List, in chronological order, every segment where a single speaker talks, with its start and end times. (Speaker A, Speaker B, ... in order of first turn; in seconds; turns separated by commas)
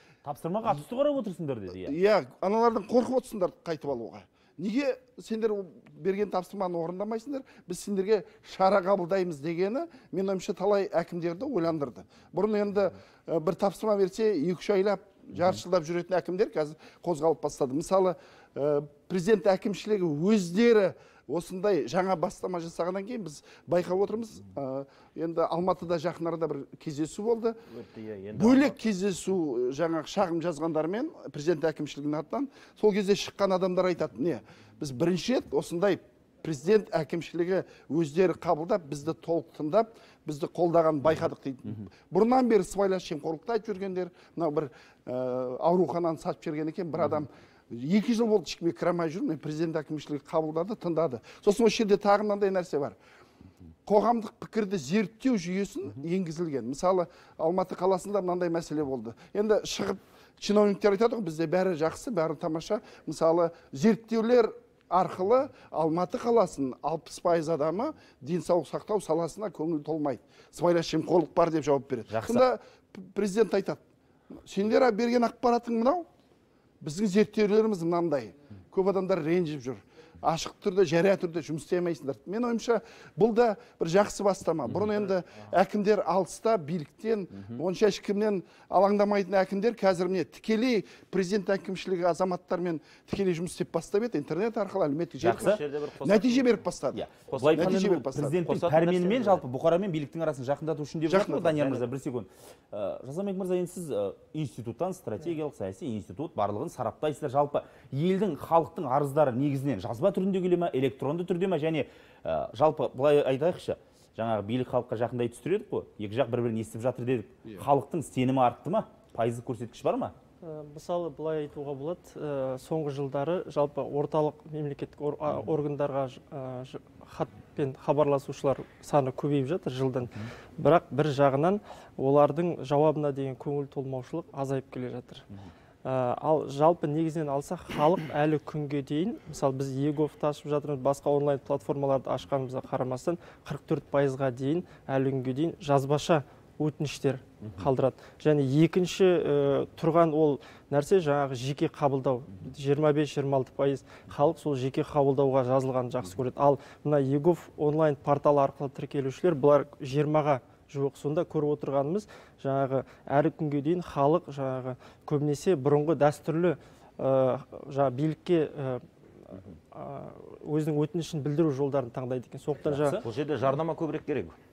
Speaker A: 0.2-1.9, Speaker B: 1.8-27.6, Speaker C: 27.7-28.8, Speaker B: 28.3-53.0, Speaker B: 53.9-73.8, Speaker A: 72.1-72.4, Speaker B: 74.3-76.1, Speaker B: 76.8-98.4, Speaker A: 95.2-95.6, Speaker C: 95.2-96.5, Speaker A: 96.9-120.1, Speaker C: 97.3-99.4, Speaker B: 101.1-101.8, Speaker C: 101.5-101.8, Speaker D: 120.4-135.2, Speaker D: 135.8-168.8, Speaker D: 169.7-173.0, Speaker A: 172.6-173.1, Speaker C: 173.0-174.3